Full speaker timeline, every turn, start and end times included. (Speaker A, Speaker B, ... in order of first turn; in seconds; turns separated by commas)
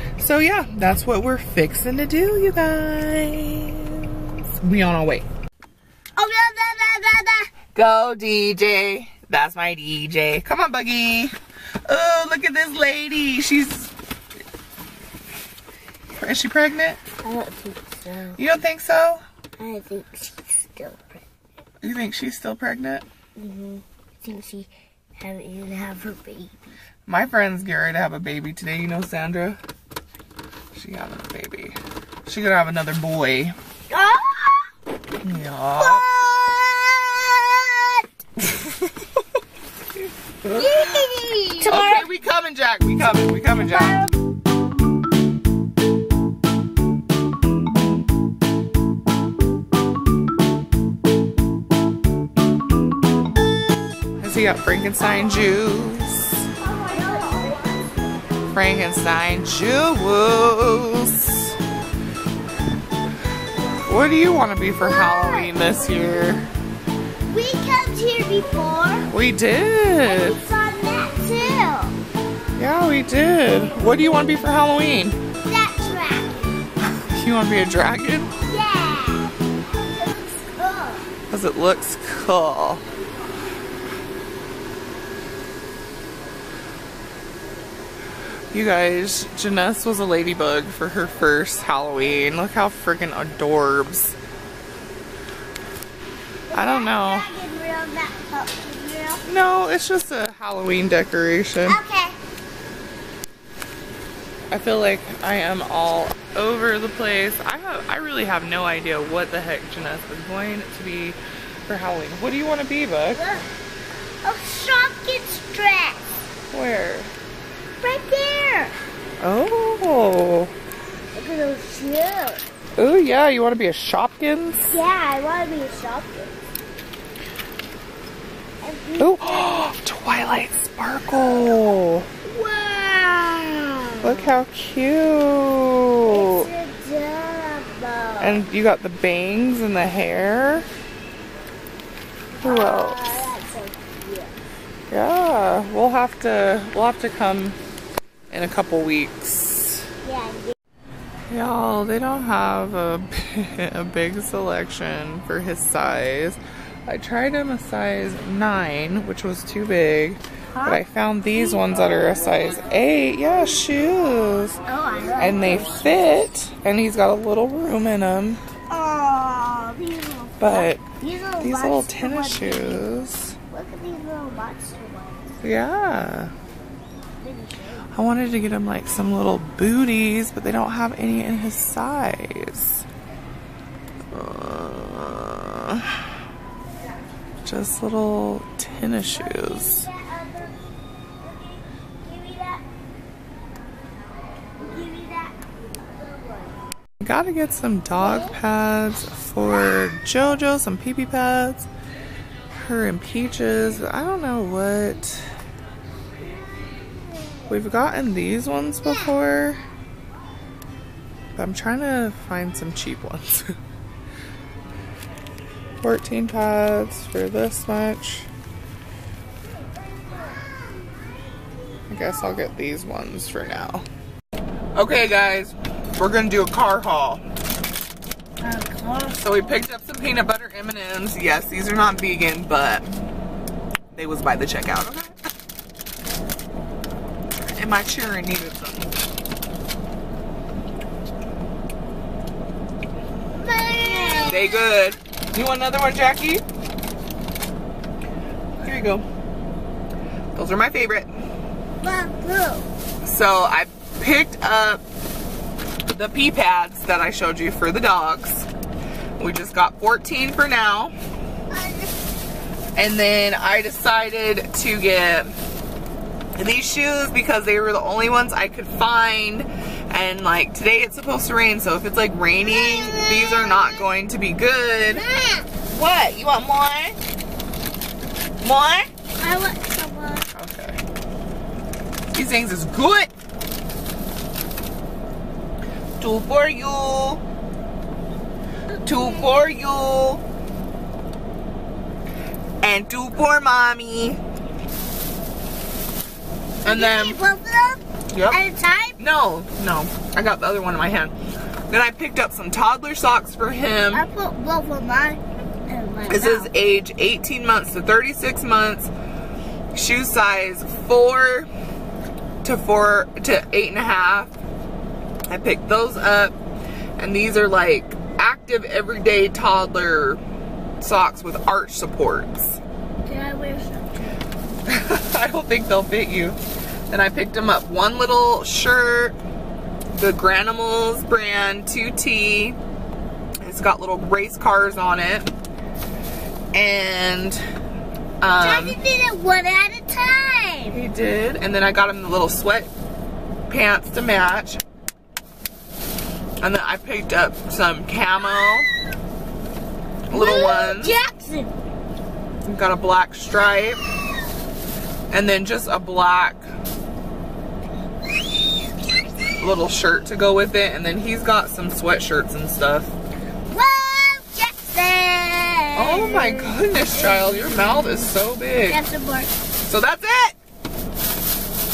Speaker A: 0.2-5.3, Speaker B: 6.2-7.5, Speaker A: 7.7-11.3, Speaker A: 11.8-13.9, Speaker A: 16.2-17.0, Speaker B: 17.2-18.4, Speaker A: 18.4-19.2, Speaker B: 19.6-21.2, Speaker A: 21.8-23.0, Speaker B: 23.4-26.5, Speaker A: 27.1-29.6, Speaker A: 30.7-33.5, Speaker B: 33.9-34.7, Speaker A: 35.2-36.0, Speaker B: 35.8-38.1, Speaker A: 40.4-40.9, Speaker B: 40.5-42.1, Speaker A: 41.6-44.0, Speaker B: 43.5-44.1, Speaker A: 54.2-56.5, Speaker B: 56.6-57.9, Speaker A: 58.5-61.5, Speaker A: 63.8-66.5, Speaker B: 64.8-65.6, Speaker B: 67.3-69.1, Speaker A: 69.1-70.4, Speaker B: 70.0-72.0, Speaker A: 72.6-75.2, Speaker B: 75.4-76.5, Speaker A: 76.8-78.3, Speaker B: 78.4-81.0, Speaker A: 81.3-82.8, Speaker A: 88.5-94.2, Speaker B: 96.5-99.2, Speaker A: 96.5-97.3, Speaker A: 99.3-101.8, Speaker B: 101.6-102.2, Speaker A: 104.5-113.2, Speaker B: 113.1-113.5, Speaker B: 114.2-116.1, Speaker A: 116.5-117.1, Speaker B: 117.8-118.7, Speaker A: 119.2-120.5, Speaker B: 121.1-122.4, Speaker A: 122.8-124.8, Speaker B: 124.7-126.3, Speaker B: 128.6-129.6, Speaker A: 129.0-132.1, Speaker B: 132.2-134.3, Speaker A: 134.0-136.5, Speaker B: 136.1-138.4, Speaker A: 138.2-140.7, Speaker B: 142.4-144.3, Speaker A: 142.4-143.3, Speaker A: 144.9-147.6, Speaker A: 148.3-149.9, Speaker B: 150.0-150.5, Speaker A: 151.3-164.6, Speaker B: 164.7-166.2, Speaker A: 165.2-168.4, Speaker B: 168.7-172.9, Speaker A: 170.4-170.8, Speaker A: 171.4-173.3, Speaker B: 173.5-175.3, Speaker A: 175.4-176.3, Speaker B: 177.2-177.9, Speaker A: 177.9-182.8, Speaker A: 184.1-186.1, Speaker A: 187.4-189.9, Speaker B: 189.2-190.6, Speaker B: 191.2-192.6, Speaker B: 194.6-195.3, Speaker B: 195.9-196.6, Speaker A: 197.0-201.7, Speaker B: 198.0-198.3, Speaker A: 202.5-205.3, Speaker A: 207.5-209.6, Speaker A: 211.3-213.5, Speaker A: 215.8-218.3, Speaker A: 221.9-223.8, Speaker A: 224.8-227.2, Speaker B: 228.4-229.4, Speaker A: 229.2-232.8, Speaker A: 233.9-235.1, Speaker A: 237.5-238.9, Speaker B: 243.3-244.6, Speaker A: 244.2-246.4, Speaker A: 248.6-249.0, Speaker A: 250.3-251.1, Speaker B: 251.8-252.7, Speaker A: 253.0-254.8, Speaker A: 255.9-258.5, Speaker A: 259.2-260.9, Speaker B: 261.5-261.9, Speaker A: 262.8-265.3, Speaker A: 266.4-275.0, Speaker B: 272.4-273.8, Speaker B: 274.9-275.5, Speaker A: 275.6-277.0, Speaker A: 278.4-278.9, Speaker B: 279.2-280.3, Speaker A: 280.3-280.8, Speaker A: 282.1-283.1, Speaker A: 286.0-287.2, Speaker A: 288.8-290.2, Speaker B: 288.9-289.3, Speaker A: 292.6-294.2, Speaker A: 296.6-297.2, Speaker B: 296.6-299.0, Speaker A: 298.1-298.4, Speaker A: 299.0-301.1, Speaker A: 301.7-304.0, Speaker B: 303.9-306.5, Speaker A: 306.1-308.9, Speaker A: 309.7-311.5, Speaker A: 312.4-314.3, Speaker A: 315.3-316.3, Speaker A: 317.0-320.2, Speaker A: 320.8-322.6, Speaker B: 323.1-324.2, Speaker A: 324.6-326.4, Speaker A: 326.9-329.1, Speaker A: 329.9-332.6, Speaker A: 333.4-335.3, Speaker A: 336.5-337.4, Speaker A: 338.2-338.8, Speaker B: 338.4-340.8, Speaker A: 340.7-342.7, Speaker A: 343.5-344.6, Speaker A: 346.4-348.7, Speaker A: 350.1-350.9, Speaker B: 350.1-351.5, Speaker A: 352.5-353.8, Speaker A: 355.1-356.4, Speaker A: 359.4-362.9, Speaker B: 363.5-367.7, Speaker A: 365.8-368.8, Speaker B: 368.6-369.3, Speaker A: 369.6-370.4